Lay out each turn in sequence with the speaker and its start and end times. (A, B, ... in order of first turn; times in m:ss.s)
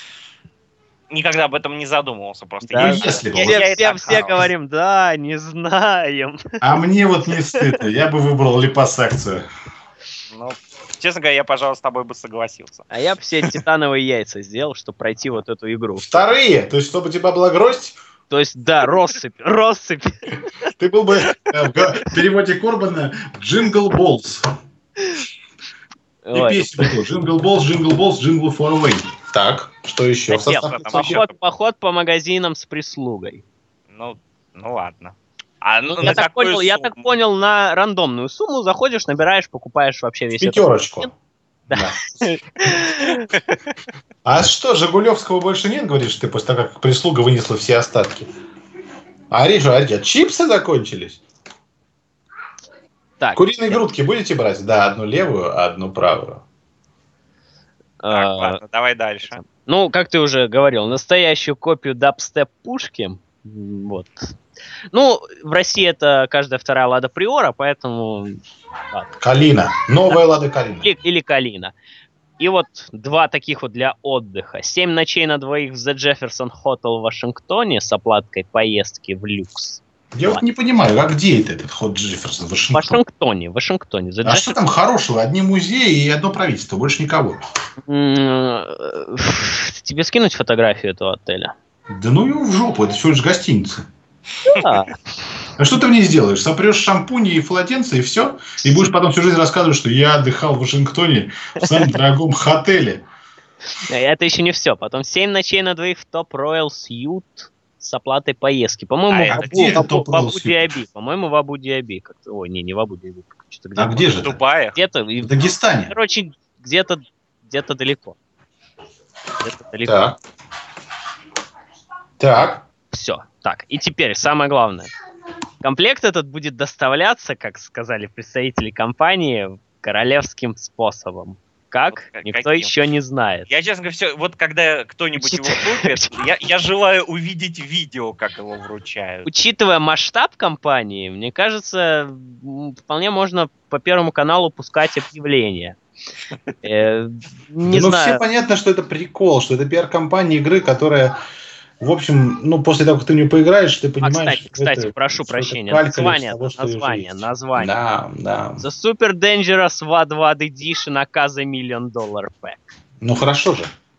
0:01.1-0:04.5 A
0:02.6-0:06.6 B
0:02.8-0:04.4 C
0:06.6-0:09.5 C
0:07.5-0:07.8 B
0:10.3-0:12.9 A
0:12.9-0:16.3 B
0:16.0-0:18.0 C
0:18.3-0:20.3 B
0:20.8-0:24.5 C
0:26.2-0:27.1 B
0:26.3-0:31.2 C
0:30.3-0:33.4 B
0:30.7-0:31.4 A
0:33.9-0:37.1 A
0:35.9-0:41.1 B
0:40.4-0:41.1 C
0:41.7-0:42.4 C
0:41.7-0:43.3 B
0:44.2-0:48.3 C
0:49.3-0:51.2 C
0:53.2-0:53.8 B
0:53.4-0:56.4 C
0:58.0-0:58.6 B
0:58.1-0:59.4 A
0:59.3-1:04.4 B
1:04.9-1:09.1 B
1:09.2-1:10.9 C
1:10.8-1:11.7 B
1:12.4-1:20.4 B
1:20.1-1:23.0 C
1:22.7-1:24.6 B
1:24.2-1:27.4 C
1:27.9-1:31.5 B
1:31.9-1:33.8 C
1:34.5-1:35.0 B
1:35.6-1:43.0 C
1:38.6-1:38.9 B
1:41.6-1:41.9 B
1:43.7-1:58.2 B
1:49.1-1:49.8 A
1:49.3-1:50.8 C
1:53.8-1:54.4 C
1:54.2-1:54.8 A
1:55.2-1:55.9 C
1:59.4-2:00.0 B
1:59.9-2:00.2 C
2:02.2-2:02.6 C
2:02.9-2:04.9 B
2:05.6-2:13.5 B
2:11.9-2:12.7 A
2:13.5-2:19.3 A
2:15.2-2:16.1 B
2:19.2-2:25.8 B
2:26.6-2:28.2 B
2:27.6-2:31.2 C
2:31.8-2:38.6 C
2:34.0-2:37.7 B
2:38.6-2:42.6 B
2:43.0-2:43.7 C